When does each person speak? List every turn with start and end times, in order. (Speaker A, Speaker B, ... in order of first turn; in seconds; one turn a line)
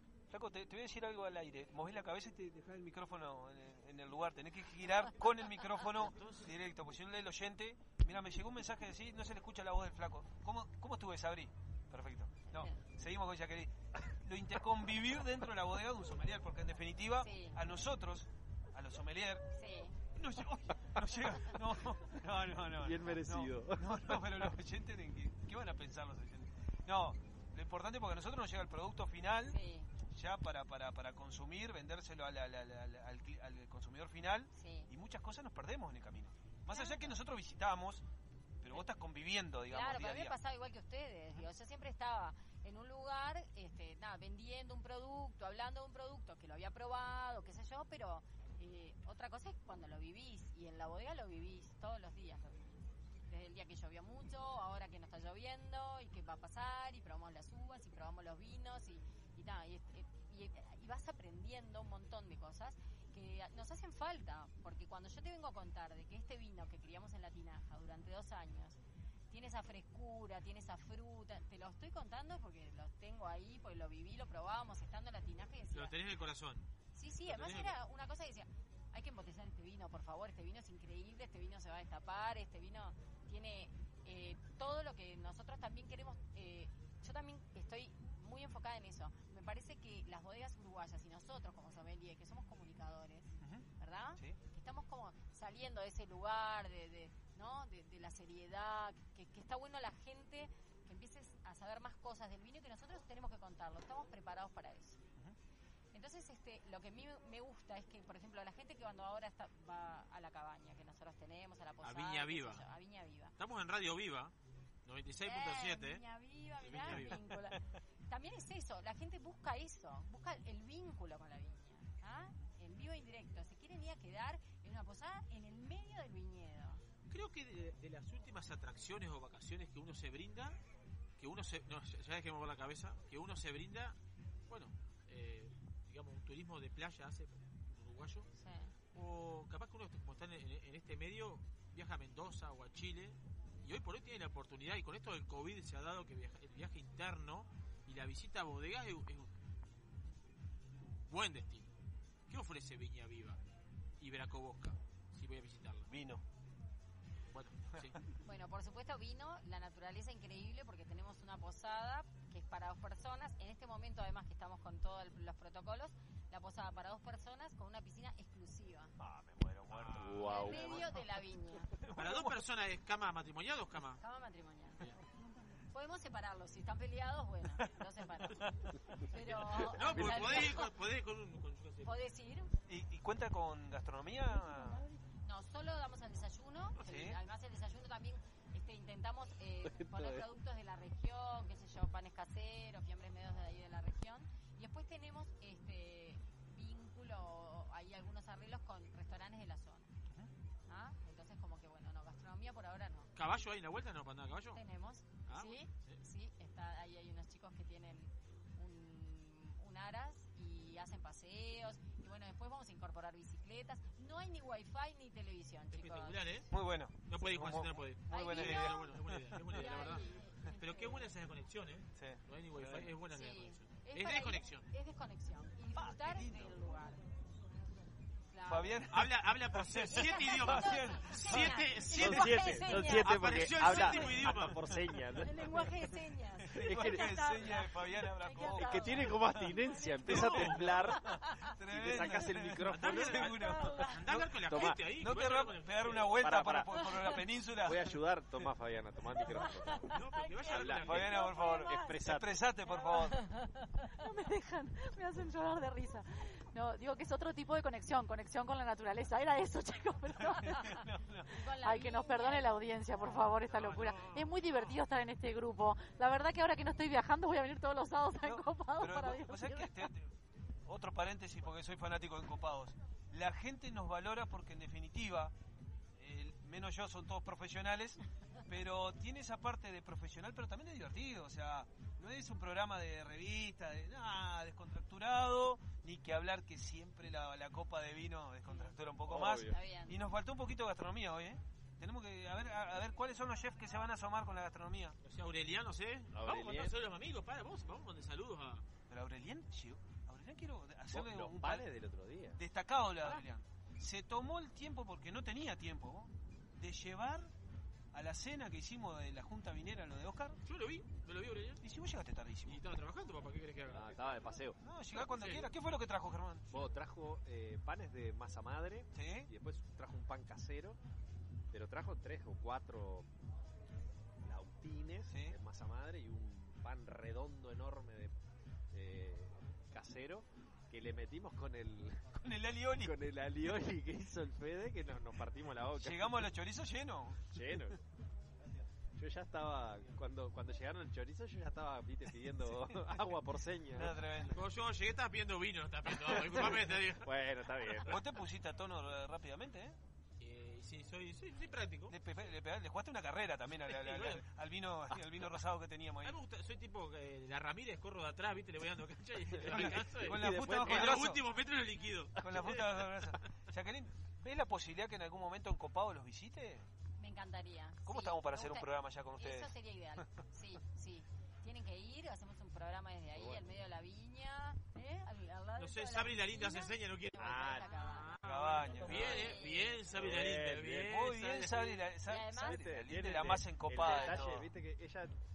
Speaker A: 0.3-13.7
Speaker B: 6.0-6.5
Speaker C: 12.5-12.8
Speaker A: 14.2-19.4
Speaker C: 17.2-17.6
Speaker C: 19.5-20.0
Speaker A: 20.1-38.0
Speaker D: 22.8-24.2
Speaker C: 29.4-29.9
Speaker C: 34.5-34.9
Speaker A: 38.6-40.4
Speaker C: 39.7-68.8
Speaker C: 69.3-75.9
Speaker B: 75.7-76.7
Speaker C: 76.9-105.0
Speaker B: 77.3-77.8
Speaker C: 105.9-113.3
Speaker B: 111.8-112.7
Speaker B: 113.4-114.3
Speaker B: 114.8-116.0
Speaker C: 115.2-126.8
Speaker B: 116.6-117.2
Speaker B: 127.1-130.6
Speaker B: 131.2-134.0
Speaker B: 134.5-138.3
Speaker C: 138.3-138.7
Speaker B: 138.9-149.4
Speaker B: 151.1-151.7
Speaker B: 152.3-153.4
Speaker B: 154.0-155.9
Speaker A: 155.9-156.2
Speaker B: 157.3-158.0
Speaker C: 158.2-168.9
Speaker D: 169.0-170.9
Speaker B: 169.7-170.8
Speaker C: 170.2-171.7
Speaker A: 171.8-172.3
Speaker B: 171.9-174.0
Speaker C: 173.9-174.8
Speaker C: 175.6-178.6
Speaker C: 179.1-180.7
Speaker B: 179.1-181.9
Speaker A: 179.9-180.4
Speaker C: 181.8-182.6
Speaker A: 182.7-184.8
Speaker C: 185.2-199.9
Speaker A: 186.8-187.2
Speaker D: 189.6-190.2
Speaker C: 200.7-203.1
Speaker B: 203.1-204.6
Speaker C: 204.5-216.4
Speaker B: 205.3-206.0
Speaker B: 215.7-216.5
Speaker A: 216.5-219.4
Speaker B: 217.1-224.7
Speaker C: 218.1-219.0
Speaker C: 219.5-221.1
Speaker A: 221.9-222.9
Speaker C: 223.1-227.0
Speaker A: 225.7-226.8
Speaker C: 228.3-228.9
Speaker A: 228.4-233.1
Speaker B: 228.9-234.6
Speaker C: 229.9-233.1
Speaker D: 231.8-235.7
Speaker C: 233.7-234.3
Speaker C: 235.2-237.3
Speaker A: 236.4-248.0
Speaker D: 236.5-237.1
Speaker E: 237.1-238.5
Speaker D: 238.4-241.0
Speaker B: 240.1-240.4
Speaker D: 241.7-243.3
Speaker B: 242.7-246.2
Speaker D: 244.4-244.8
Speaker D: 246.2-249.9
Speaker B: 249.9-251.2
Speaker E: 250.2-250.4
Speaker A: 250.4-253.2
Speaker D: 250.4-252.4
Speaker E: 251.0-251.9
Speaker E: 252.6-253.2
Speaker E: 253.9-260.8
Speaker A: 260.2-261.3
Speaker C: 261.3-263.2
Speaker E: 261.4-269.9
Speaker B: 263.4-264.7
Speaker A: 268.2-270.1
Speaker A: 270.6-275.3
Speaker A: 276.0-295.0
Speaker C: 288.5-288.8
Speaker D: 289.1-289.6
Speaker C: 289.5-290.0
Speaker B: 295.0-298.6
Speaker D: 296.1-296.7
Speaker A: 298.9-301.6
Speaker D: 300.9-302.4
Speaker A: 302.4-307.3
Speaker A: 307.9-310.4
Speaker B: 310.4-311.6
Speaker A: 311.6-312.6
Speaker B: 312.4-314.2
Speaker D: 313.7-314.6
Speaker A: 314.6-316.6
Speaker B: 314.9-315.5
Speaker D: 316.5-320.8
Speaker A: 318.9-319.3
Speaker D: 321.5-323.1
Speaker D: 324.2-328.1
Speaker A: 325.1-325.4
Speaker D: 328.7-332.1
Speaker A: 332.2-332.9
Speaker D: 332.8-336.2
Speaker A: 335.8-337.7
Speaker D: 337.3-337.8
Speaker D: 339.0-344.1
Speaker A: 343.7-344.4
Speaker B: 344.3-347.1
Speaker D: 346.1-348.0
Speaker A: 347.9-349.8
Speaker B: 350.2-351.9
Speaker A: 351.9-356.2
Speaker B: 353.7-354.2
Speaker B: 356.0-362.8
Speaker D: 359.4-361.1
Speaker A: 359.5-361.2
Speaker A: 362.2-366.7
Speaker C: 367.0-379.8
Speaker A: 367.8-370.1
Speaker D: 373.1-373.4
Speaker B: 375.6-381.8
Speaker D: 377.1-377.7
Speaker A: 378.2-379.4
Speaker D: 379.9-380.9
Speaker A: 380.8-384.5
Speaker C: 382.1-382.7
Speaker D: 382.3-385.1
Speaker C: 383.9-384.2
Speaker B: 384.0-384.3